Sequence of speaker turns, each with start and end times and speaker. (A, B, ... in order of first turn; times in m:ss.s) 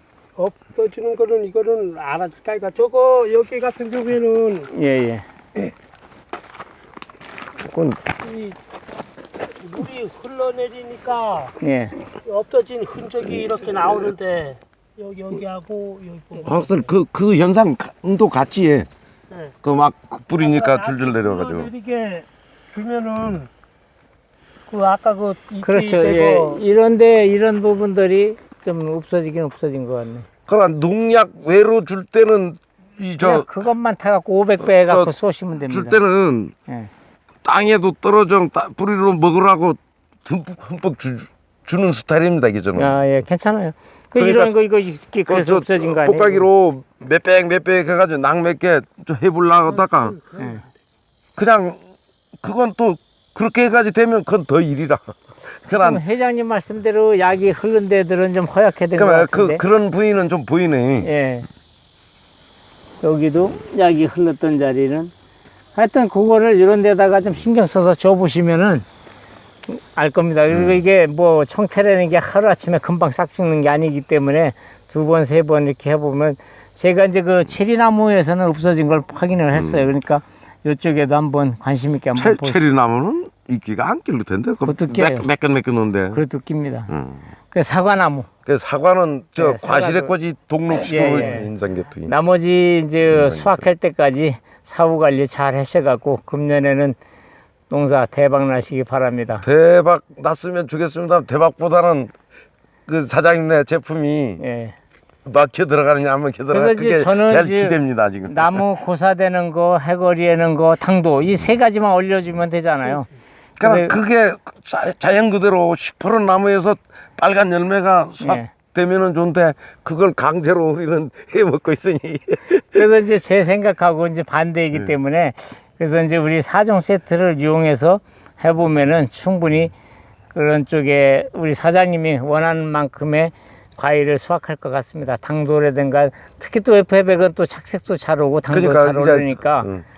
0:00.4-0:04.7 A
0:04.7-0:05.2 B
0:07.6-0:08.0 C
0:08.2-0:08.6 A
0:09.6-0:11.5 A
0:11.6-0:12.0 B
0:12.2-0:16.9 A
0:13.5-0:14.1 C
0:16.4-0:18.9 C
0:19.6-0:21.7 C
0:20.3-0:23.5 A
0:24.7-0:26.6 A
0:25.6-0:30.2 B
0:30.5-0:33.5 C
0:33.2-0:36.0 B
0:34.6-0:35.1 C
0:35.7-0:36.5 C
0:37.4-0:42.9 C
0:42.8-0:46.5 B
0:44.2-0:44.5 C
0:45.3-0:50.2 C
0:49.7-0:50.6 A
0:51.3-0:51.8 C
0:52.4-0:55.1 C
0:55.6-0:56.0 C
0:55.8-0:59.6 B
0:58.9-1:01.1 C
1:01.0-1:01.5 B
1:03.0-1:05.1 B
1:05.7-1:08.8 B
1:09.7-1:22.6 B
1:10.5-1:10.8 C
1:19.5-1:19.9 C
1:22.2-1:26.2 C
1:24.6-1:25.3 B
1:26.1-1:26.9 B
1:26.9-1:27.2 C
1:27.5-1:28.3 B
1:28.4-1:32.1 C
1:29.4-1:30.1 B
1:30.7-1:31.5 B
1:32.0-1:37.0 B
1:33.1-1:33.6 C
1:37.7-1:39.4 B
1:39.4-1:42.1 C
1:42.9-1:44.4 C
1:44.4-1:44.7 B
1:45.2-1:48.6 C
1:46.5-1:47.8 B
1:48.3-1:53.1 B
1:53.6-2:02.8 C
1:53.6-1:54.0 B
1:58.2-1:58.5 B
2:02.7-2:09.7 B
2:10.3-2:19.7 B
2:18.5-2:19.8 C